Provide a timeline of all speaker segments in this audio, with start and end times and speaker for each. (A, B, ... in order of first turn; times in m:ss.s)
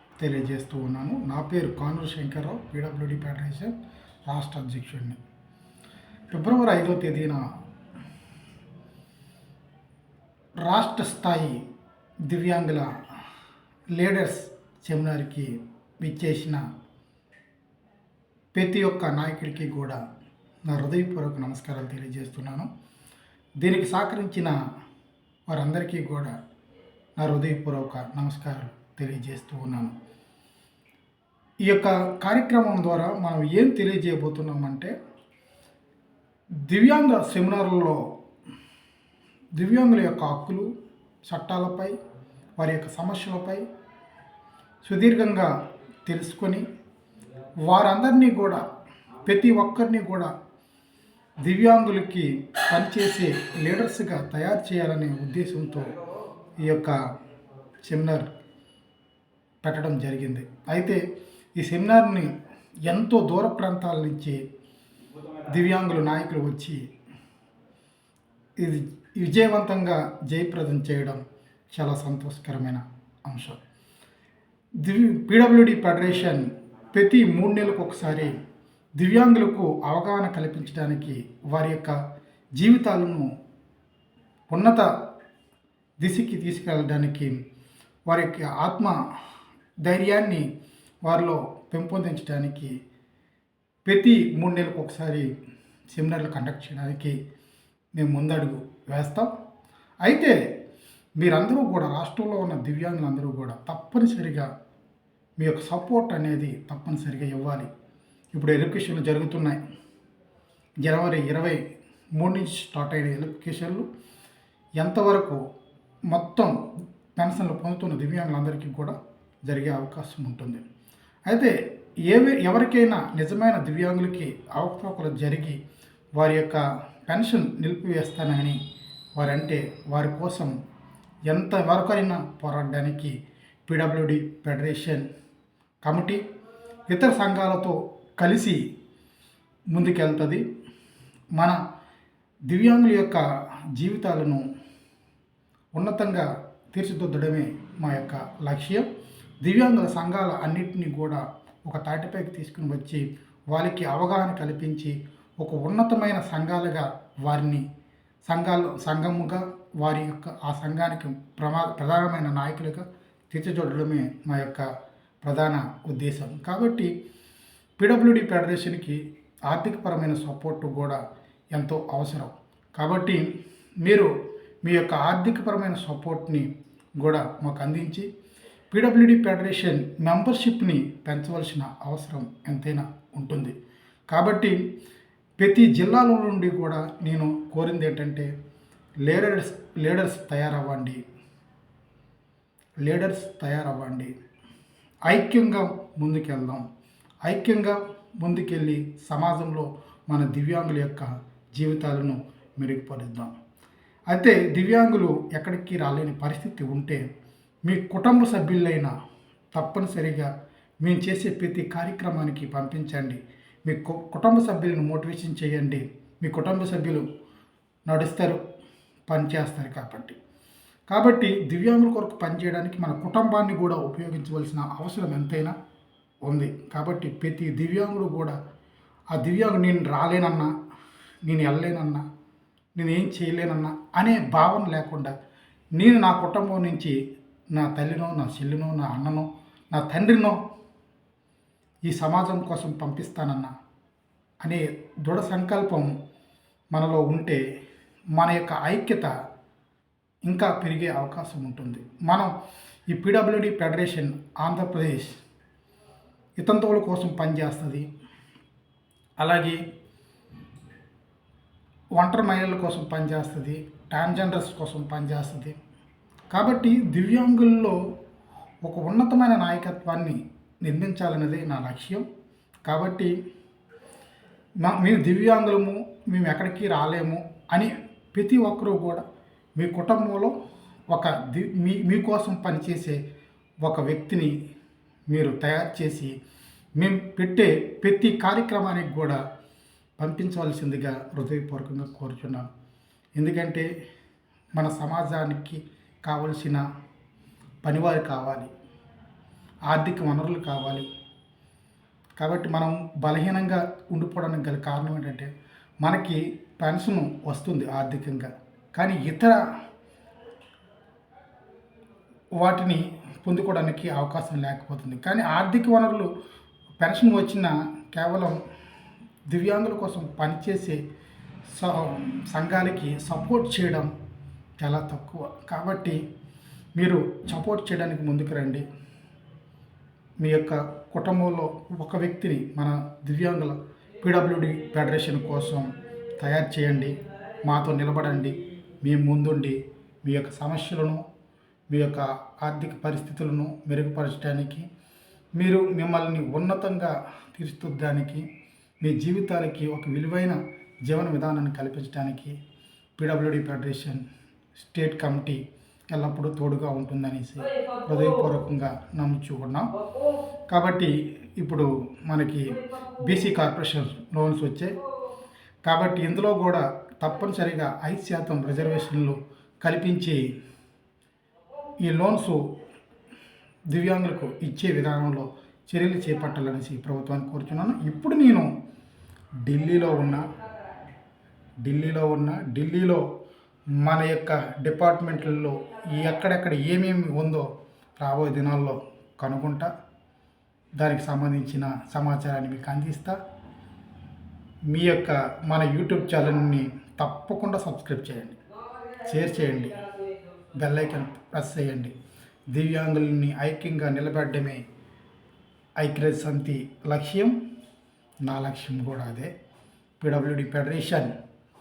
0:00.2-0:03.7 A
0:04.3-0:05.2 A
0:06.3-0:07.4 A
0:10.6-0:11.6 A
0:12.3-0:12.9 A
0:13.9-0:16.6 A
0:18.5-0:20.0 A
0:20.7-0:22.7 A
0:23.6-0:24.5 A
0:25.5-0:26.3 A
0:27.2-0:29.9 A
0:31.6-0:34.9 A
0:36.6-0:38.0 A
0:39.5-0:40.7 A
0:41.2-0:41.9 A
0:42.6-0:43.6 A
0:44.8-0:45.5 A
0:46.0-0:46.6 A
0:47.6-0:48.6 A
0:49.2-0:50.3 A
0:51.4-0:56.0 A
0:56.6-0:57.0 A
0:57.8-0:58.3 A
0:59.6-1:01.0 A
1:01.6-1:02.3 A
1:02.8-1:04.4 A
1:05.4-1:06.8 A
1:08.6-1:13.6 A
1:14.8-1:18.4 A
1:19.0-1:22.0 A
1:22.6-1:23.3 A
1:24.5-1:24.9 A
1:26.0-1:27.4 A
1:28.1-1:29.0 A
1:29.8-1:30.4 A
1:31.0-1:32.7 A
1:33.8-1:35.3 A
1:35.9-1:37.2 A
1:38.0-1:39.3 A
1:40.0-1:40.4 A
1:41.2-1:44.5 A
1:45.4-1:47.7 A
1:48.3-1:49.6 A
1:50.8-1:51.6 A
1:52.2-1:53.8 A
1:54.8-1:55.4 A
1:56.1-1:56.5 A
1:57.2-1:58.9 A
1:59.4-2:00.6 A
2:01.3-2:01.5 A
2:02.1-2:05.6 A
2:06.2-2:08.6 A
2:09.2-2:10.5 A
2:11.3-2:13.1 A
2:13.7-2:15.0 A
2:15.8-2:16.2 A
2:16.9-2:18.6 A
2:19.7-2:20.4 A
2:22.5-2:23.2 A
2:23.8-2:24.4 A
2:25.8-2:28.8 A
2:29.4-2:37.6 A
2:38.2-2:44.6 A
2:45.2-2:46.9 A
2:47.8-2:51.0 A
2:51.5-2:53.2 A
2:53.8-2:54.1 A
2:54.6-2:56.5 A
2:57.0-2:58.1 A
2:58.7-3:03.5 A
3:04.1-3:04.6 A
3:05.4-3:08.3 A
3:09.0-3:11.0 A
3:12.8-3:14.1 A
3:15.1-3:16.6 A
3:17.2-3:23.3 A
3:24.1-3:27.0 A
3:27.6-3:28.9 A
3:29.5-3:30.3 A
3:30.8-3:37.0 A
3:37.9-3:38.4 A
3:39.1-3:40.2 A
3:40.9-3:45.5 A
3:46.2-3:48.4 A
3:49.1-3:50.5 A
3:51.2-3:52.0 A
3:52.8-3:55.1 A
3:55.8-3:56.9 A
3:57.5-4:00.4 A
4:01.9-4:03.5 A
4:04.4-4:05.9 A
4:06.7-4:07.4 A
4:08.2-4:09.1 A
4:10.3-4:12.3 A
4:12.9-4:15.1 A
4:16.4-4:17.9 A
4:19.2-4:19.6 A
4:22.0-4:25.6 A
4:26.3-4:27.8 A
4:28.6-4:32.0 A
4:32.6-4:33.1 A
4:34.6-4:39.0 A
4:39.6-4:40.3 A
4:40.9-4:43.0 A
4:43.6-4:44.3 A
4:45.1-4:46.1 A
4:46.8-4:49.2 A
4:50.0-4:52.5 A
4:53.2-4:53.7 A
4:54.6-4:56.6 A
4:57.6-4:58.5 A
4:59.7-5:00.9 A
5:02.2-5:05.3 A
5:05.8-5:09.4 A
5:12.4-5:16.1 A
5:16.8-5:18.4 A
5:19.3-5:20.8 A
5:21.5-5:23.9 A
5:24.6-5:26.0 A
5:26.8-5:28.6 A
5:30.2-5:41.0 A
5:41.7-5:44.6 A
5:45.4-5:48.2 A
5:48.8-5:52.4 A
5:53.0-5:54.0 A
5:54.6-5:59.7 A
6:00.5-6:04.8 A
6:05.6-6:10.2 A
6:11.8-6:12.4 A
6:13.7-6:18.5 A
6:19.4-6:20.4 A
6:21.6-6:23.0 A
6:23.8-6:29.7 A
6:30.8-6:33.2 A
6:34.7-6:38.4 A
6:38.9-6:39.9 A
6:40.5-6:41.9 A
6:42.5-6:44.6 A
6:45.8-6:47.3 A
6:48.2-6:49.3 A
6:50.0-6:51.1 A